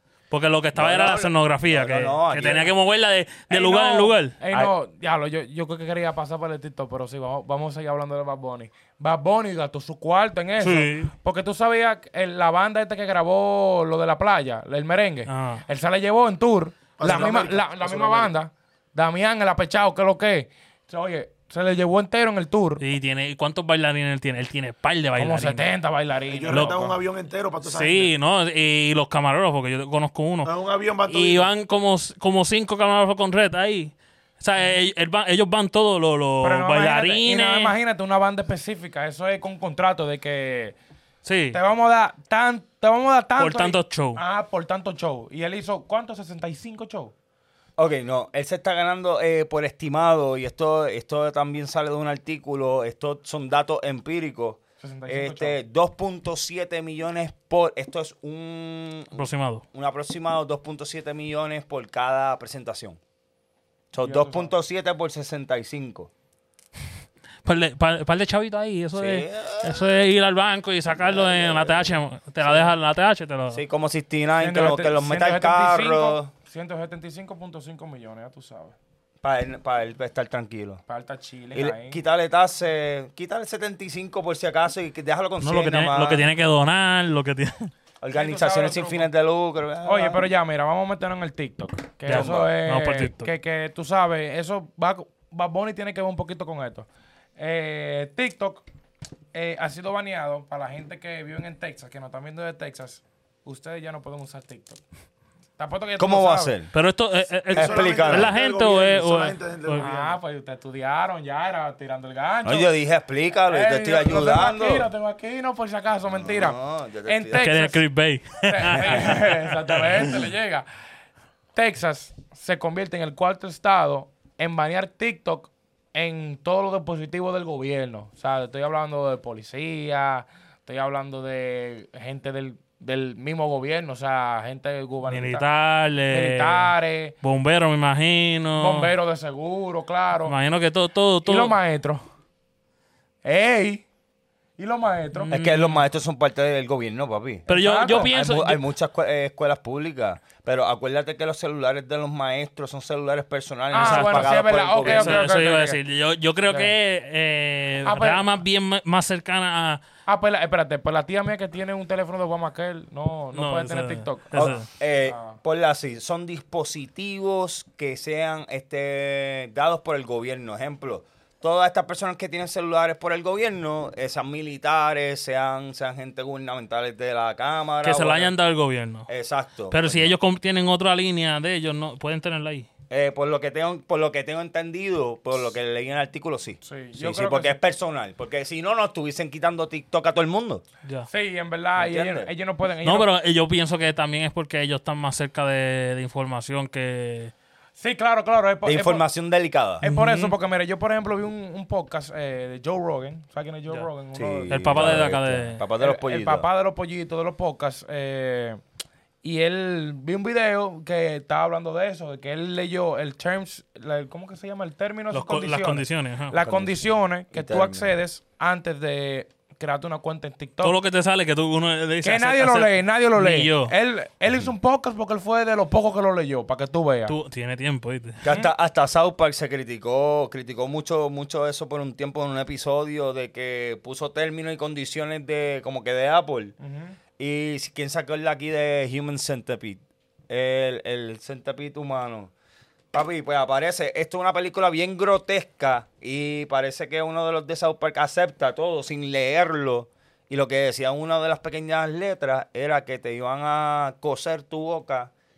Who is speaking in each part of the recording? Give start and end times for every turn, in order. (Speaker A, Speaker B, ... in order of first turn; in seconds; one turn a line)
Speaker A: 0.3-4.4
Speaker B: 0.8-2.7
Speaker C: 3.5-22.8
Speaker A: 10.6-11.1
Speaker A: 15.3-15.6
Speaker D: 17.0-18.3
Speaker A: 22.8-25.7
Speaker C: 25.2-27.0
Speaker D: 26.3-28.1
Speaker A: 26.5-26.8
Speaker A: 27.7-30.5
Speaker D: 30.4-31.5
Speaker A: 31.1-37.8
Speaker C: 36.4-40.8
Speaker A: 41.2-41.6
Speaker C: 41.5-47.1
Speaker A: 43.4-44.2
Speaker B: 47.8-59.2
Speaker C: 54.8-55.6
Speaker A: 59.1-59.6
Speaker B: 59.7-63.0
Speaker B: 63.9-66.1
Speaker C: 64.0-64.5
Speaker A: 67.4-73.6
Speaker B: 69.0-69.8
Speaker B: 71.0-71.9
Speaker C: 72.4-72.7
Speaker B: 73.5-76.3
Speaker C: 74.4-78.8
Speaker B: 79.2-80.8
Speaker C: 80.9-82.0
Speaker B: 81.5-86.3
Speaker A: 85.4-87.7
Speaker B: 88.0-90.2
Speaker C: 88.1-89.1
Speaker C: 89.8-98.7
Speaker A: 92.1-93.3
Speaker B: 92.1-92.5
Speaker C: 99.3-104.8
Speaker C: 105.6-106.5
Speaker B: 106.0-106.7
Speaker A: 106.7-109.8
Speaker D: 107.5-110.2
Speaker B: 107.5-108.3
Speaker C: 109.8-112.7
Speaker B: 112.5-114.9
Speaker C: 113.5-117.8
Speaker B: 116.1-117.5
Speaker A: 117.3-120.3
Speaker C: 118.5-120.7
Speaker C: 121.5-135.4
Speaker A: 135.1-138.9
Speaker C: 136.1-137.2
Speaker C: 138.6-140.3
Speaker A: 140.3-141.6
Speaker C: 141.2-142.0
Speaker C: 143.2-143.8
Speaker C: 144.6-145.3
Speaker A: 145.1-145.8
Speaker B: 145.3-155.3
Speaker C: 147.5-148.1
Speaker A: 147.5-148.6
Speaker C: 153.7-155.8
Speaker A: 153.8-159.8
Speaker C: 156.5-156.7
Speaker C: 157.8-158.3
Speaker C: 160.1-165.4
Speaker A: 163.3-164.7
Speaker B: 164.3-178.3
Speaker A: 177.8-179.1
Speaker B: 179.1-180.2
Speaker A: 179.7-182.7
Speaker B: 182.9-190.6
Speaker C: 186.6-187.6
Speaker C: 191.1-193.1
Speaker B: 191.8-192.3
Speaker A: 192.8-197.3
Speaker C: 197.8-199.0
Speaker B: 198.6-199.8
Speaker C: 199.8-205.0
Speaker A: 199.8-200.4
Speaker B: 204.1-206.5
Speaker A: 204.5-205.6
Speaker C: 205.8-208.6
Speaker C: 209.2-220.8
Speaker A: 215.1-216.4
Speaker B: 216.4-217.9
Speaker A: 220.6-223.7
Speaker C: 222.0-227.2
Speaker A: 227.1-228.2
Speaker B: 228.2-236.6
Speaker C: 236.6-237.0
Speaker B: 237.2-242.3
Speaker B: 242.9-255.1